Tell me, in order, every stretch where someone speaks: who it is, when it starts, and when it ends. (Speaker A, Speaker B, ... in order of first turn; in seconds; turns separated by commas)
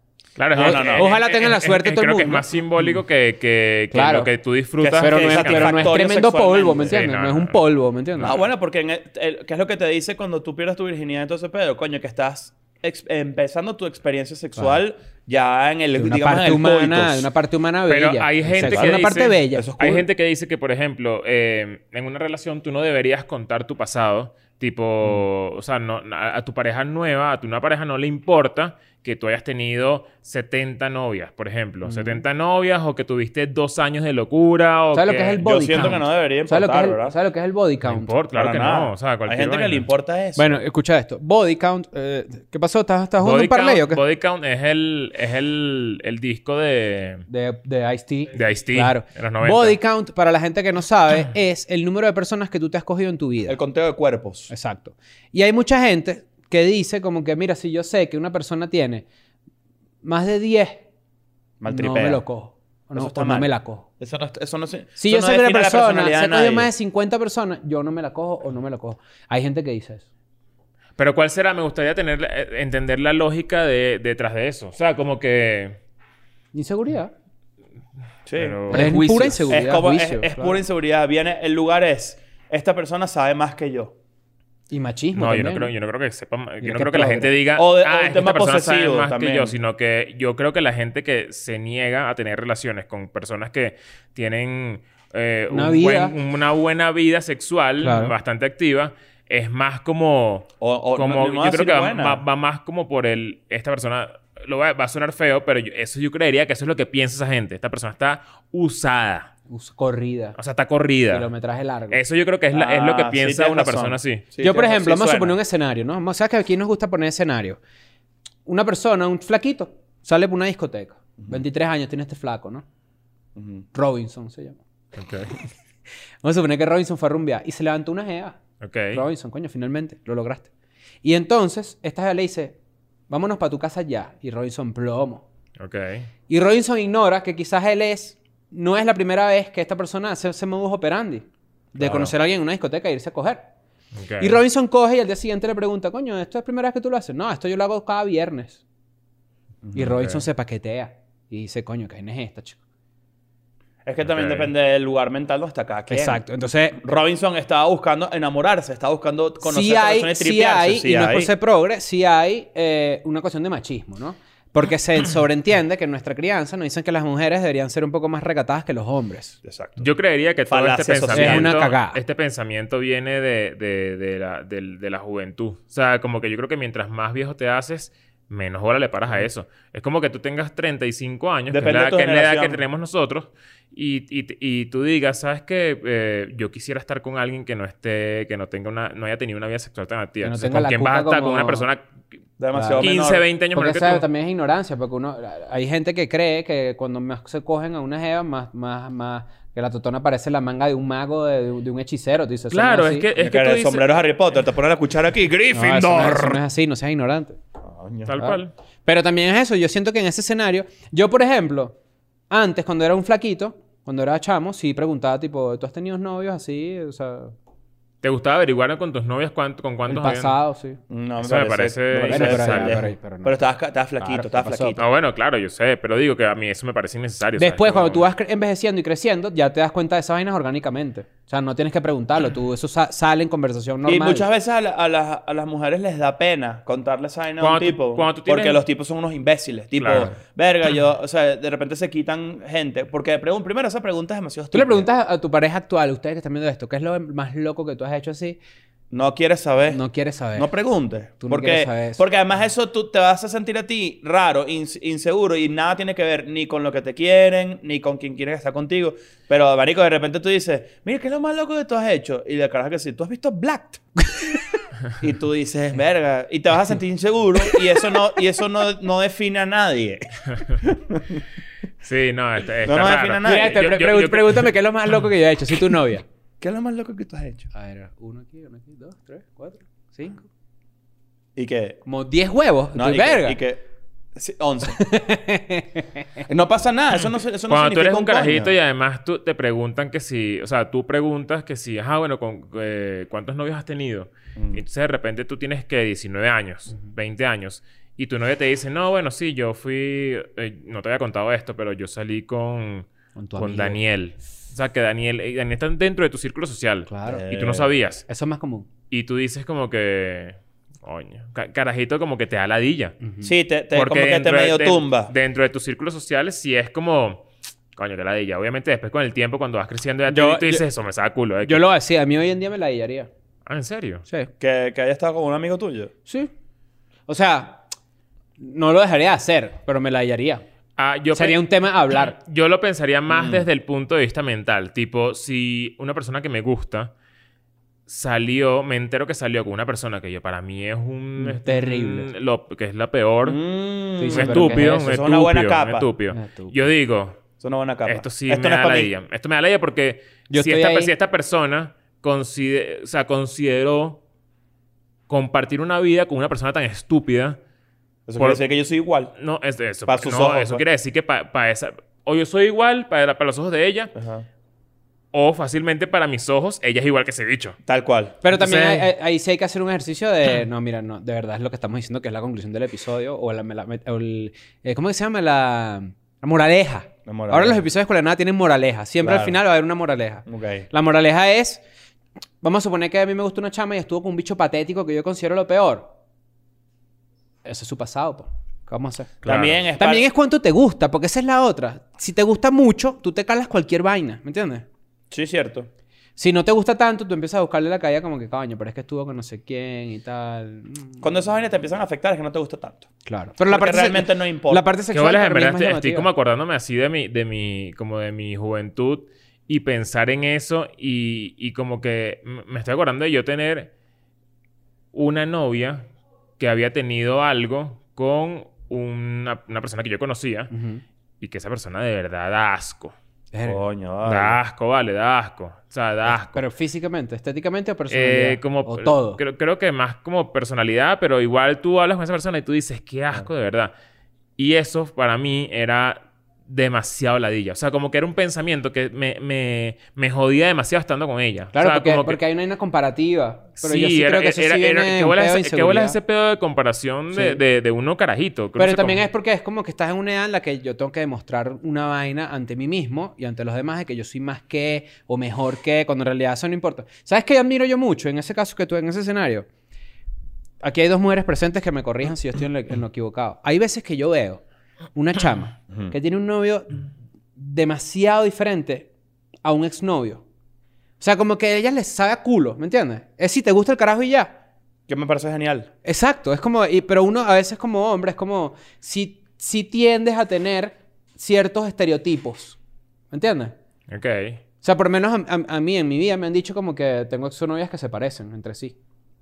Speaker A: 0.4-6.0, Speaker B: 0.5-1.1, Speaker C: 0.6-2.9, Speaker C: 3.9-4.3, Speaker B: 4.8-7.1, Speaker C: 5.0-8.4, Speaker A: 6.9-7.6, Speaker B: 8.2-17.3, Speaker C: 16.0-19.7, Speaker A: 17.9-36.0, Speaker B: 18.6-20.1, Speaker C: 31.9-32.2, Speaker C: 34.9-38.1, Speaker B: 35.4-37.2, Speaker A: 37.8-39.9, Speaker B: 38.3-40.6, Speaker C: 40.4-44.0, Speaker A: 43.2-47.2, Speaker C: 47.3-53.6, Speaker A: 48.3-49.8, Speaker B: 53.5-54.5, Speaker C: 54.5-59.1, Speaker C: 60.0-60.8, Speaker B: 61.6-62.2, Speaker C: 61.7-63.9, Speaker B: 62.9-66.7, Speaker C: 65.0-70.1, Speaker A: 71.0-75.8, Speaker C: 76.5-77.1, Speaker B: 78.3-83.9, Speaker A: 78.4-79.5, Speaker C: 78.7-80.6, Speaker C: 84.7-85.7, Speaker A: 85.2-109.3, Speaker C: 86.6-87.3, Speaker B: 87.6-89.5, Speaker C: 95.5-96.2, Speaker C: 97.8-98.2, Speaker B: 100.6-102.2, Speaker C: 109.5-110.4, Speaker A: 110.4-111.3, Speaker C: 111.1-112.0, Speaker A: 111.9-114.2, Speaker B: 112.5-115.4, Speaker C: 114.4-117.6, Speaker C: 118.5-122.6, Speaker B: 123.4-123.7, Speaker C: 123.7-124.6, Speaker A: 125.0-125.3, Speaker C: 126.2-128.4, Speaker A: 128.6-129.0, Speaker C: 128.9-130.5, Speaker C: 131.0-132.6, Speaker C: 133.1-135.2, Speaker A: 135.6-136.1, Speaker C: 136.3-143.4, Speaker A: 141.8-142.1, Speaker A: 143.9-144.4, Speaker C: 144.2-148.6, Speaker B: 149.6-149.9, Speaker C: 149.8-152.6, Speaker B: 153.8-161.3, Speaker A: 154.0-154.5, Speaker C: 155.9-156.8, Speaker C: 159.4-169.4, Speaker B: 169.4-169.9, Speaker A: 169.8-191.9, Speaker B: 170.5-171.5, Speaker C: 171.1-172.0, Speaker B: 181.5-182.6, Speaker C: 190.2-191.7, Speaker B: 192.4-193.2, Speaker C: 192.5-192.9, Speaker A: 192.8-194.1, Speaker C: 193.6-203.1, Speaker A: 202.5-203.9, Speaker B: 203.2-206.4, Speaker C: 205.5-207.4, Speaker B: 207.6-208.2, Speaker A: 208.1-208.5, Speaker C: 208.2-211.8, Speaker C: 212.3-217.3, Speaker A: 218.0-220.4, Speaker C: 219.9-220.8, Speaker B: 220.9-224.9, Speaker A: 221.2-222.8, Speaker C: 222.1-223.4, Speaker C: 224.0-224.8, Speaker A: 224.8-228.1, Speaker C: 227.4-234.3, Speaker B: 233.8-244.9, Speaker A: 237.4-238.6, Speaker A: 239.8-240.1, Speaker C: 244.5-248.4, Speaker B: 248.9-249.8, Speaker C: 249.7-250.5, Speaker B: 250.3-263.8, Speaker C: 251.2-252.0, Speaker B: 265.0-271.2, Speaker A: 271.8-274.5, Speaker B: 272.6-273.6, Speaker C: 273.2-276.1, Speaker B: 276.4-277.5, Speaker C: 277.5-280.3, Speaker B: 281.4-281.8, Speaker C: 281.9-283.4, Speaker B: 282.8-283.6, Speaker B: 284.2-284.8, Speaker C: 284.7-286.2, Speaker B: 286.3-288.5, Speaker A: 287.5-308.1, Speaker B: 294.4-294.6, Speaker C: 303.2-303.8, Speaker C: 306.9-307.2, Speaker B: 307.1-307.7, Speaker C: 308.1-308.7, Speaker A: 308.9-313.0, Speaker C: 313.0-313.3, Speaker B: 313.2-315.1, Speaker A: 313.7-317.2, Speaker A: 317.8-321.6, Speaker C: 320.1-320.6, Speaker C: 321.4-323.1, Speaker A: 323.5-324.1, Speaker B: 324.4-325.9, Speaker C: 327.1-327.6, Speaker C: 328.4-330.4, Speaker A: 330.8-336.9, Speaker C: 331.1-332.1, Speaker B: 333.1-333.5, Speaker A: 337.9-343.4, Speaker C: 341.2-342.1, Speaker B: 343.2-345.9, Speaker C: 344.0-344.9, Speaker A: 344.1-347.2, Speaker C: 346.1-346.6, Speaker B: 347.4-348.9, Speaker A: 347.9-354.0, Speaker C: 350.3-350.9, Speaker A: 355.1-357.4, Speaker B: 358.1-359.1, Speaker A: 359.2-363.9, Speaker B: 359.9-360.6, Speaker B: 363.9-364.3, Speaker A: 365.1-367.6, Speaker B: 367.7-368.6, Speaker C: 368.2-381.6, Speaker A: 368.5-368.8, Speaker B: 377.1-377.6, Speaker B: 379.0-379.4, Speaker B: 380.3-380.7, Speaker C: 382.4-385.9, Speaker C: 387.4-389.1, Speaker A: 389.2-389.6, Speaker B: 389.2-390.1, Speaker C: 389.8-394.6, Speaker B: 395.1-395.7, Speaker C: 396.2-401.1, Speaker B: 401.0-402.9, Speaker C: 403.1-406.1, Speaker B: 403.5-404.7, Speaker A: 404.9-413.7, Speaker A: 414.9-415.9, Speaker A: 416.4-420.5, Speaker C: 420.5-420.8, Speaker A: 421.2-422.9, Speaker C: 423.3-423.6, Speaker B: 423.4-424.4, Speaker A: 424.0-426.4, Speaker C: 426.3-429.2, Speaker A: 427.9-433.7, Speaker A: 434.4-442.2, Speaker C: 441.5-446.0, Speaker A: 443.6-449.0, Speaker C: 447.1-447.4, Speaker C: 448.6-459.5, Speaker C: 460.6-464.4, Speaker C: 464.9-468.9, Speaker C: 469.4-470.2, Speaker C: 471.0-474.3, Speaker B: 474.9-475.7, Speaker C: 475.9-482.6, Speaker C: 483.1-483.6, Speaker A: 483.9-484.4, Speaker C: 484.6-488.8